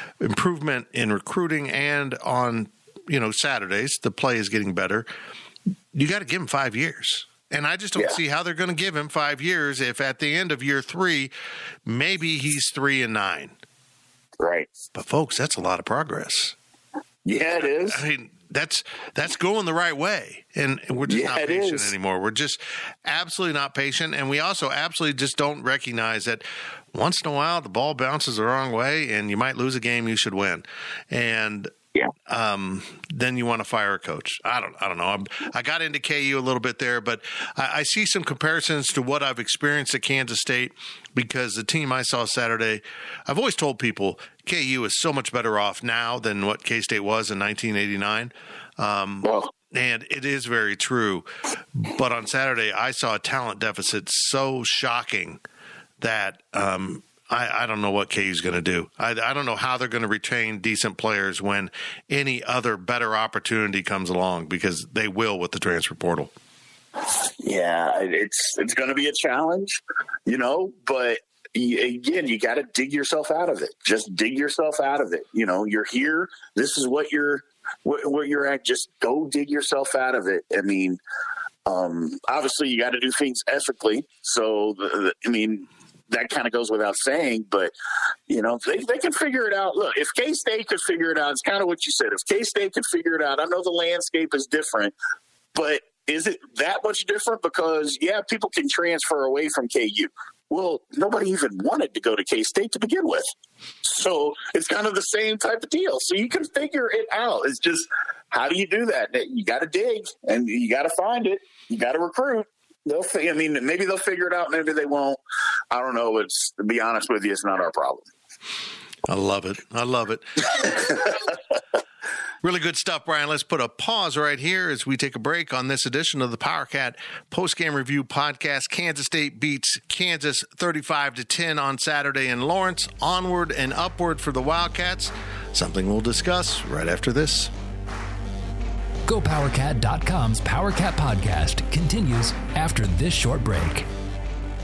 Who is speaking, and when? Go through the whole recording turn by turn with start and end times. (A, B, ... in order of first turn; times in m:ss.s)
0:00.2-0:05.1 A
0:05.9-0:11.3 A
0:11.8-0:13.5 A
0:14.4-0:14.7 B
0:14.9-0:16.5 A
0:17.2-0:18.0 B
0:17.9-0:31.7 A
0:21.1-0:21.9 B
0:32.3-0:55.4 A
0:49.2-0:49.5 B
0:56.0-1:06.3 A
1:07.4-1:21.0 B
1:21.6-1:27.7 B
1:28.3-1:34.9 B
1:35.5-1:43.3 B
1:43.8-1:55.2 B
1:55.7-1:58.1 B
1:59.1-2:01.1 A
2:02.4-2:17.5 A
2:19.0-2:23.9 C